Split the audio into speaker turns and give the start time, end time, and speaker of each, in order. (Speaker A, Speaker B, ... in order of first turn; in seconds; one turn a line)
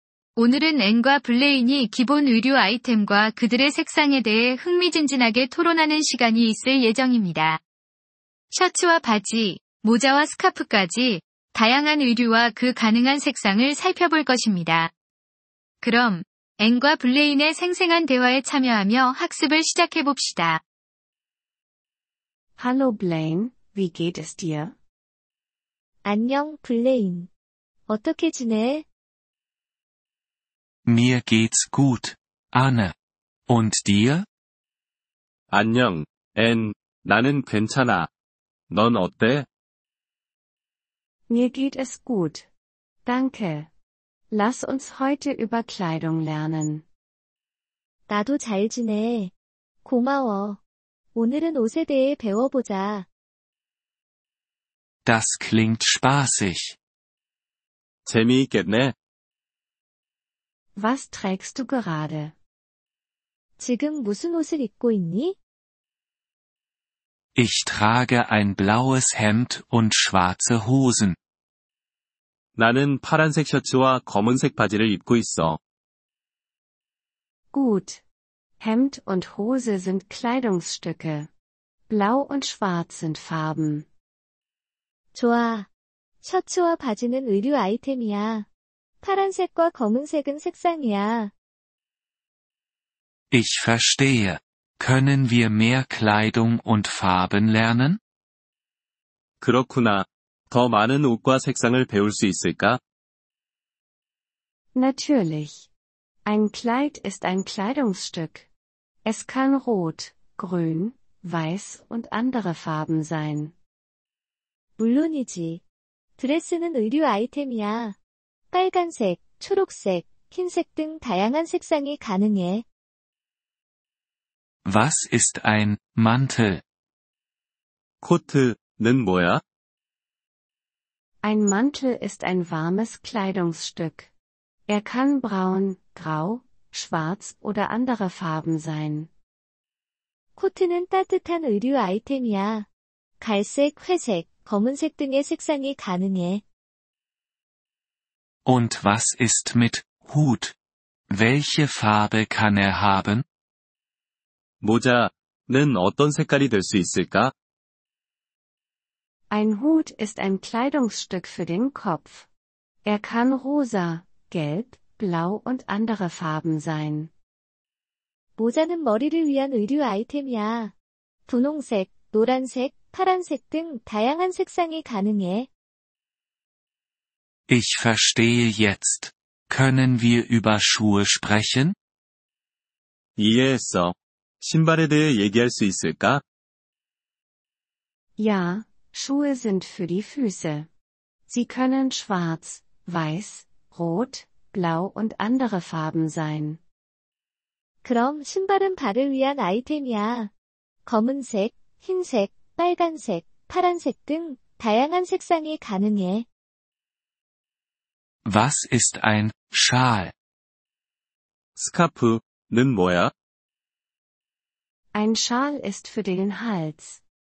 Speaker A: 0.4-7.6
Speaker A: 8.5-14.9
Speaker A: 15.8-20.6
Speaker B: 22.6-24.7
Speaker C: 26.0-27.3
Speaker C: 27.9-28.9
Speaker D: 30.9-32.9
Speaker D: 33.5-34.2
Speaker E: 35.5-38.1
Speaker E: 38.7-39.5
Speaker B: 41.3-42.5
Speaker B: 43.0-43.7
Speaker B: 44.3-46.8
Speaker C: 48.1-49.3
Speaker C: 49.8-50.6
Speaker C: 51.1-53.1
Speaker D: 55.0-56.8
Speaker E: 58.0-58.9
Speaker B: 60.8-62.3
Speaker C: 63.6-65.4
Speaker D: 67.3-71.2
Speaker E: 72.5-75.6
Speaker B: 77.5-78.0
Speaker B: 78.6-81.3
Speaker B: 81.9-83.9
Speaker C: 85.1-85.7
Speaker C: 86.2-88.5
Speaker C: 89.0-91.3
Speaker D: 93.3-98.0
Speaker E: 99.4-102.8
Speaker B: 104.8-105.7
Speaker B: 106.2-108.5
Speaker B: 109.0-113.5
Speaker C: 114.8-115.6
Speaker C: 116.2-118.0
Speaker C: 118.5-122.7
Speaker D: 124.7-126.6
Speaker E: 128.0-129.4
Speaker B: 131.2-134.1
Speaker B: 134.7-139.1
Speaker C: 140.4-142.7
Speaker C: 143.2-146.4
Speaker D: 148.4-150.5
Speaker D: 151.1-153.2
Speaker E: 154.6-157.3
Speaker B: 159.3-162.3
Speaker B: 162.8-167.1
Speaker C: 168.4-170.7
Speaker C: 171.3-175.5
Speaker D: 177.5-181.8
Speaker E: 183.2-186.2
Speaker B: 188.2-190.7
Speaker B: 191.3-196.6
Speaker C: 197.8-200.3
Speaker C: 200.8-206.3
Speaker D: 208.2-210.1
Speaker E: 211.6-213.1
Speaker B: 214.9-217.0